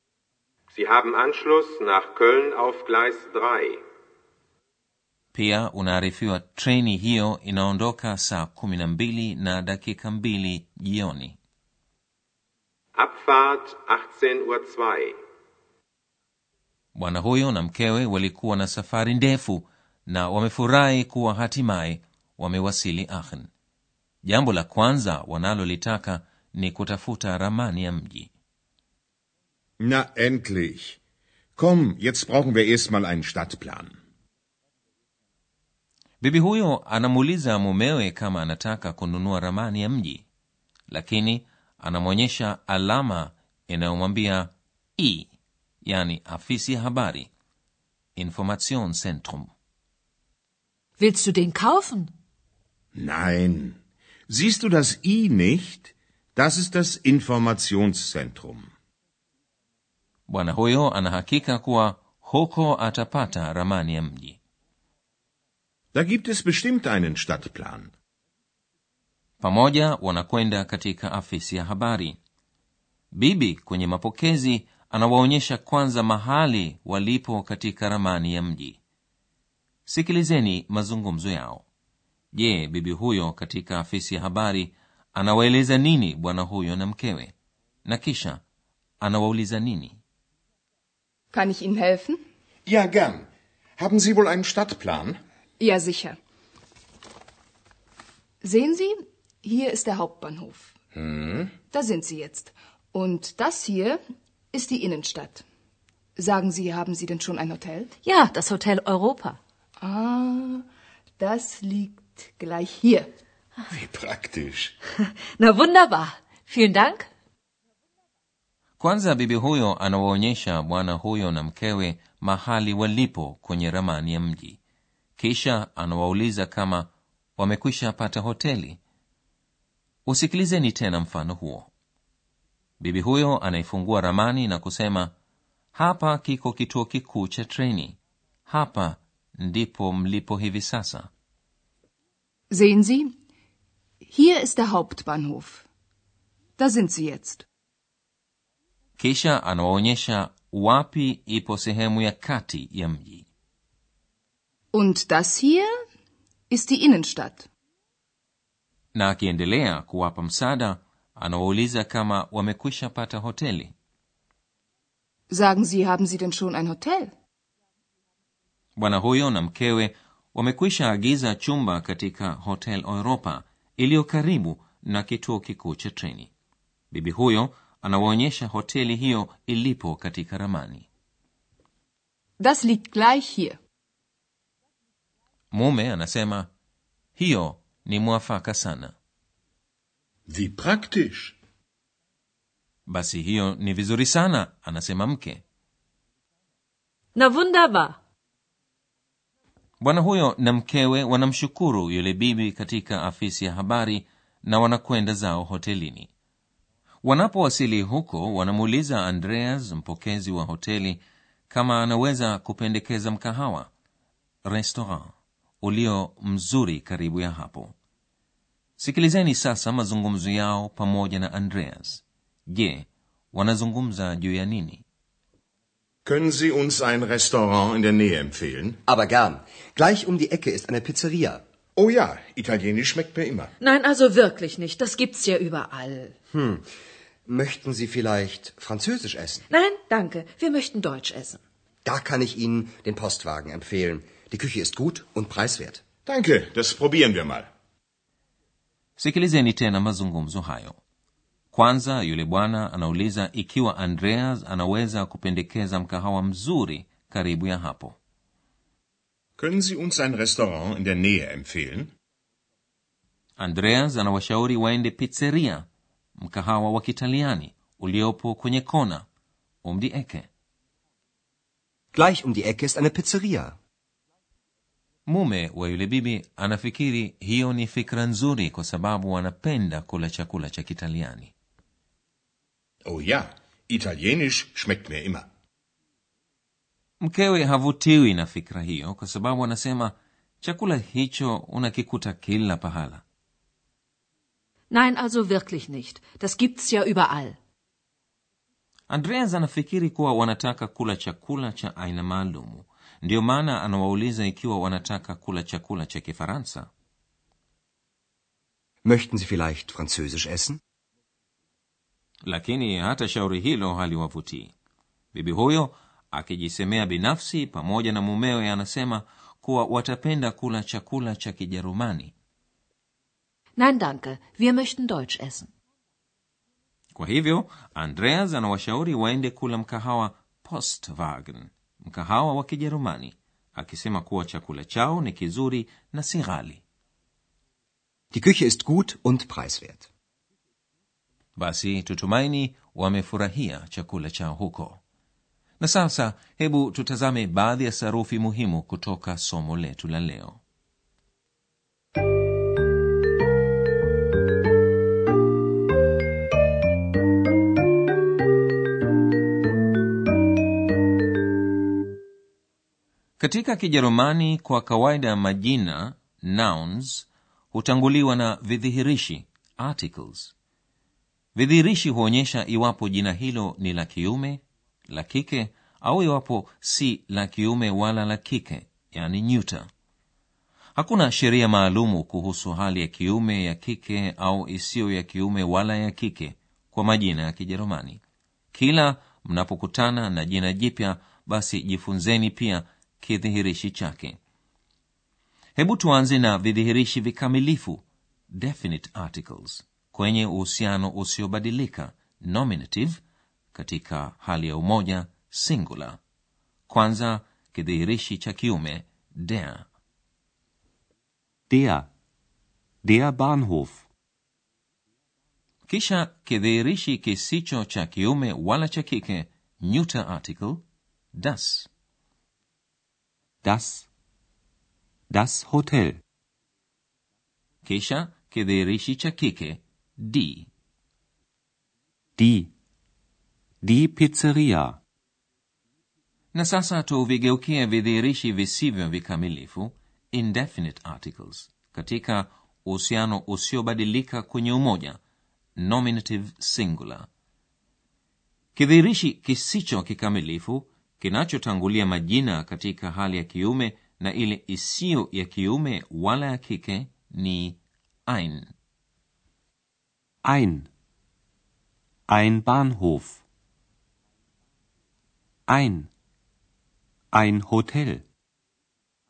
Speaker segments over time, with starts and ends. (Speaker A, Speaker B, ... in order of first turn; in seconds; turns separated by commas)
Speaker A: 0.7-3.8, Speaker B: 5.3-11.4, Speaker A: 13.0-15.1, Speaker B: 16.9-23.5, Speaker B: 24.2-28.3, Speaker C: 29.8-31.0, Speaker C: 31.6-33.9, Speaker B: 36.2-40.2, Speaker B: 40.9-45.3, Speaker B: 45.8-47.3, Speaker B: 48.1-49.5, Speaker D: 51.0-52.1, Speaker C: 52.9-53.8, Speaker C: 54.3-58.7, Speaker B: 60.3-64.4, Speaker C: 65.9-67.9, Speaker B: 69.4-72.2, Speaker B: 73.1-78.8, Speaker B: 79.8-81.7, Speaker B: 82.3-87.3, Speaker B: 87.8-88.4, Speaker B: 89.0-90.0, Speaker E: 91.3-92.2, Speaker C: 92.7-95.2, Speaker E: 95.6-96.2, Speaker E: 98.4-100.7, Speaker C: 100.9-101.6, Speaker E: 101.7-104.0, Speaker E: 104.5-105.4, Speaker E: 106.2-107.9, Speaker D: 108.0-109.4, Speaker E: 109.8-110.6, Speaker E: 111.2-113.1, Speaker C: 113.7-114.7, Speaker D: 115.0-117.1, Speaker B: 118.8-124.6, Speaker B: 125.2-128.8, Speaker B: 130.1-131.7, Speaker B: 132.8-135.1, Speaker B: 135.7-141.1, Speaker E: 142.5-143.1, Speaker E: 144.0-145.6, Speaker E: 146.6-147.4, Speaker B: 149.0-153.3, Speaker E: 154.7-155.7, Speaker E: 156.5-157.4, Speaker B: 158.9-163.7, Speaker E: 165.3-167.1, Speaker B: 168.8-176.3, Speaker B: 176.9-180.9, Speaker E: 182.4-183.6, Speaker B: 185.5-186.5, Speaker B: 187.2-188.9, Speaker C: 190.3-191.3, Speaker B: 192.9-195.4, Speaker D: 197.1-198.0, Speaker B: 199.8-206.1, Speaker B: 207.0-213.7, Speaker B: 214.4-217.7, Speaker B: 218.8-224.8, Speaker C: 226.0-228.8, Speaker F: 228.9-231.4, Speaker C: 231.8-233.5, Speaker D: 233.6-236.1, Speaker F: 236.3-236.6, Speaker F: 237.3-239.4, Speaker D: 239.5-241.4, Speaker F: 241.8-245.8, Speaker C: 246.1-247.5, Speaker B: 249.0-250.8, Speaker B: 251.5-258.0, Speaker C: 259.4-261.9, Speaker B: 263.4-269.0, Speaker B: 269.6-270.3, Speaker F: 271.9-273.5, Speaker B: 275.1-281.3, Speaker C: 282.8-285.2, Speaker B: 287.0-293.0, Speaker D: 294.7-297.4, Speaker B: 298.9-306.7, Speaker F: 308.8-310.6, Speaker B: 312.2-314.5, Speaker B: 315.1-322.1, Speaker D: 323.6-325.5, Speaker B: 326.9-336.6, Speaker F: 338.1-339.8, Speaker B: 341.4-344.8, Speaker B: 345.6-350.4, Speaker B: 363.2-370.3, Speaker B: 371.3-379.7, Speaker B: 380.8-388.0, Speaker B: 388.5-394.2, Speaker B: 395.6-403.0, Speaker B: 403.5-406.0, Speaker B: 406.7-409.6, Speaker G: 411.5-411.9, Speaker G: 412.8-413.8, Speaker B: 415.7-420.6, Speaker B: 421.2-421.7, Speaker G: 423.4-423.9, Speaker G: 425.1-426.0, Speaker B: 427.6-430.5, Speaker G: 432.2-432.5, Speaker G: 433.6-434.8, Speaker B: 436.3-445.0, Speaker B: 445.6-447.1, Speaker B: 448.5-458.5, Speaker G: 460.2-460.7, Speaker G: 462.1-463.2, Speaker G: 465.5-465.9, Speaker G: 467.1-468.0